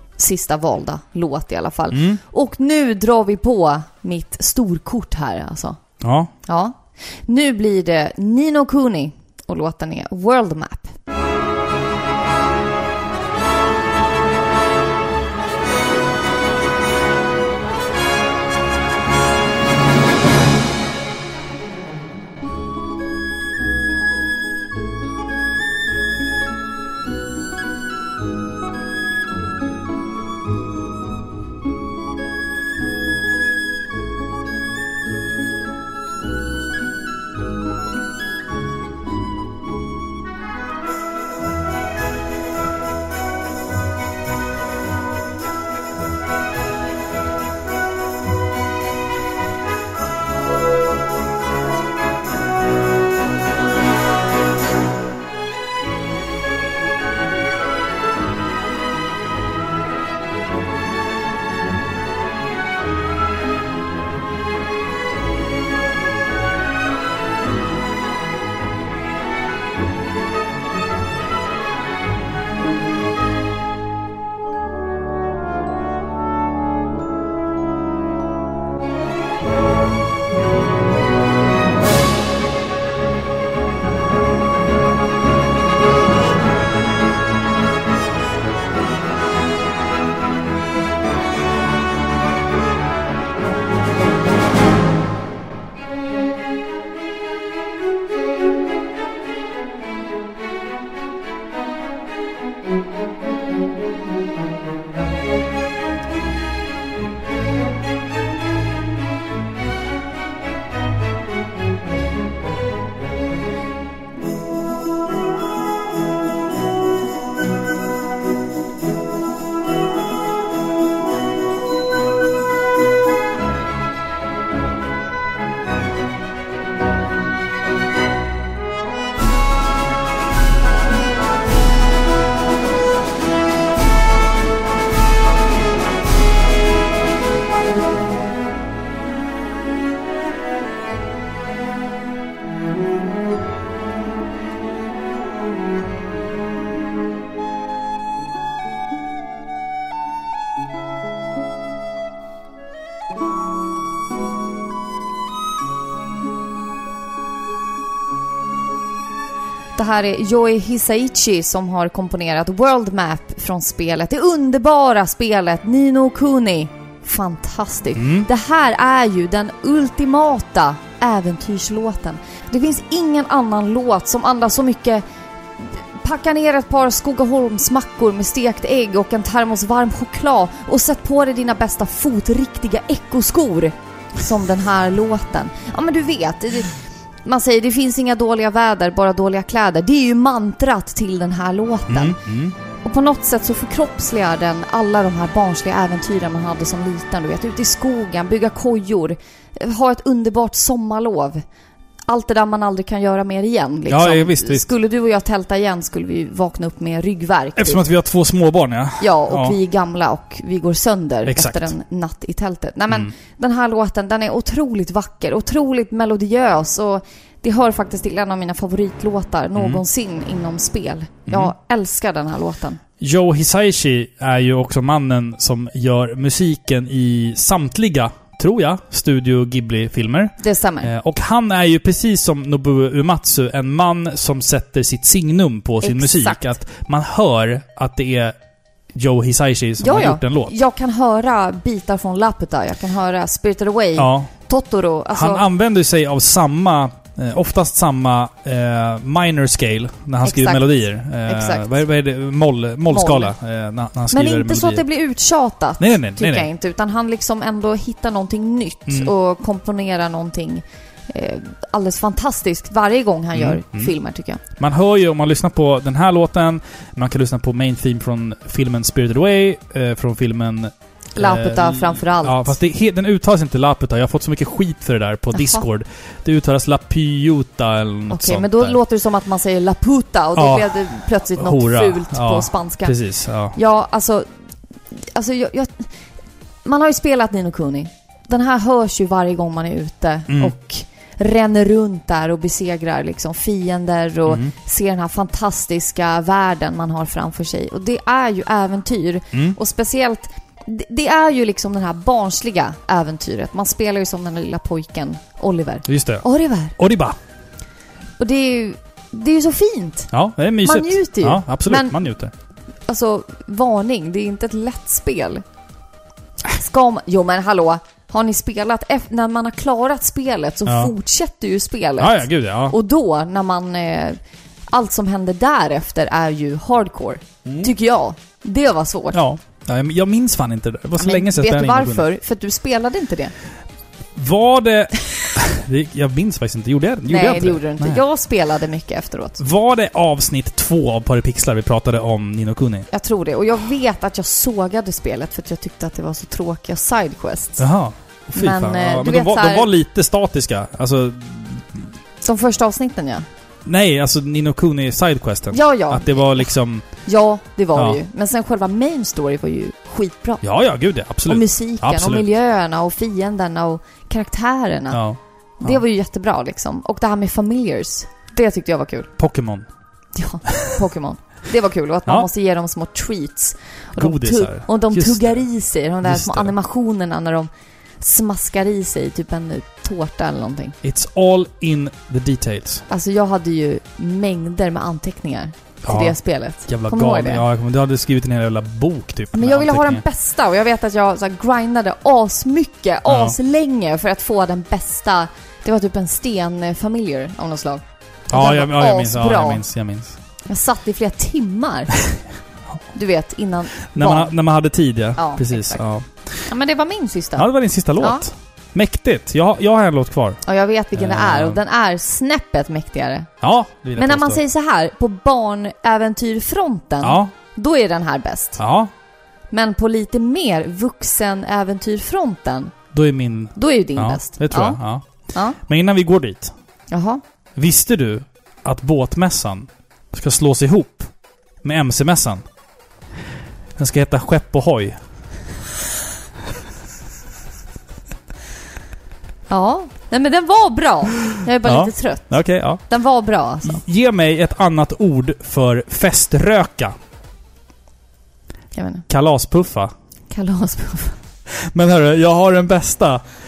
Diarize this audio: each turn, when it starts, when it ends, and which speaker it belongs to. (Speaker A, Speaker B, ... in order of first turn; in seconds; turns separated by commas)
Speaker A: 0.2-5.8, Speaker B: 1.9-2.2, Speaker B: 6.0-6.3, Speaker A: 6.5-10.9, Speaker A: 159.7-175.0, Speaker B: 167.9-168.3, Speaker A: 175.6-192.2, Speaker B: 191.9-192.6, Speaker A: 192.8-201.4, Speaker A: 202.1-207.8, Speaker B: 203.9-204.7, Speaker B: 207.6-209.6, Speaker A: 209.0-222.8, Speaker B: 211.2-211.7, Speaker B: 219.6-219.8, Speaker B: 223.0-238.3, Speaker A: 230.4-230.9, Speaker A: 235.8-236.5, Speaker B: 238.9-240.5, Speaker A: 239.8-245.4, Speaker B: 243.9-244.3, Speaker B: 245.1-254.8, Speaker A: 250.2-250.7, Speaker A: 251.3-251.8, Speaker A: 252.9-253.3, Speaker A: 254.1-264.4, Speaker B: 255.8-256.5, Speaker B: 263.3-263.9, Speaker B: 264.6-278.8, Speaker A: 271.1-272.6, Speaker A: 275.4-275.6, Speaker A: 278.1-282.9, Speaker B: 280.4-283.6, Speaker A: 283.5-284.3, Speaker A: 284.9-285.9, Speaker A: 286.6-306.7, Speaker B: 290.3-290.6, Speaker B: 294.3-294.5, Speaker B: 305.9-306.2, Speaker B: 306.8-307.2, Speaker A: 308.2-310.1, Speaker B: 310.1-312.3, Speaker A: 310.6-311.9, Speaker A: 312.9-315.4, Speaker A: 316.4-324.2, Speaker B: 320.6-320.9, Speaker B: 322.0-322.8, Speaker A: 324.7-329.2, Speaker B: 329.1-332.1, Speaker A: 331.0-333.3, Speaker B: 334.1-338.0, Speaker A: 337.1-339.4, Speaker B: 339.4-342.9, Speaker A: 342.9-347.6, Speaker B: 347.6-351.9, Speaker A: 348.4-349.7, Speaker A: 352.2-353.3, Speaker B: 353.6-356.9, Speaker A: 355.5-356.5, Speaker A: 357.0-360.4, Speaker B: 360.4-362.3, Speaker A: 361.3-365.0, Speaker B: 364.9-365.8, Speaker A: 365.6-369.1, Speaker B: 369.2-369.7, Speaker A: 370.1-377.5, Speaker B: 374.0-375.4, Speaker B: 376.0-376.5, Speaker A: 378.0-380.8, Speaker B: 380.8-382.9, Speaker A: 382.9-387.4, Speaker B: 385.9-390.0, Speaker A: 389.3-399.6, Speaker B: 393.1-393.4, Speaker B: 398.3-400.2, Speaker A: 400.4-401.9, Speaker A: 402.9-404.3, Speaker B: 403.9-406.5, Speaker A: 405.1-405.8, Speaker A: 406.5-407.5, Speaker B: 407.4-410.4, Speaker A: 408.0-408.2, Speaker A: 410.4-413.3, Speaker B: 410.9-411.6, Speaker B: 413.4-414.4, Speaker A: 413.9-418.6, Speaker B: 417.0-417.3, Speaker B: 418.6-418.9, Speaker A: 419.5-422.7, Speaker B: 422.9-425.1, Speaker A: 423.6-424.8, Speaker A: 425.3-425.6, Speaker B: 425.6-426.5, Speaker A: 426.9-427.2, Speaker B: 427.6-431.1, Speaker B: 431.6-432.4, Speaker B: 433.8-435.0, Speaker A: 439.5-443.8, Speaker B: 441.3-442.8, Speaker B: 443.6-446.9, Speaker A: 448.7-449.1, Speaker B: 449.1-449.9, Speaker A: 450.3-451.2, Speaker B: 451.5-453.2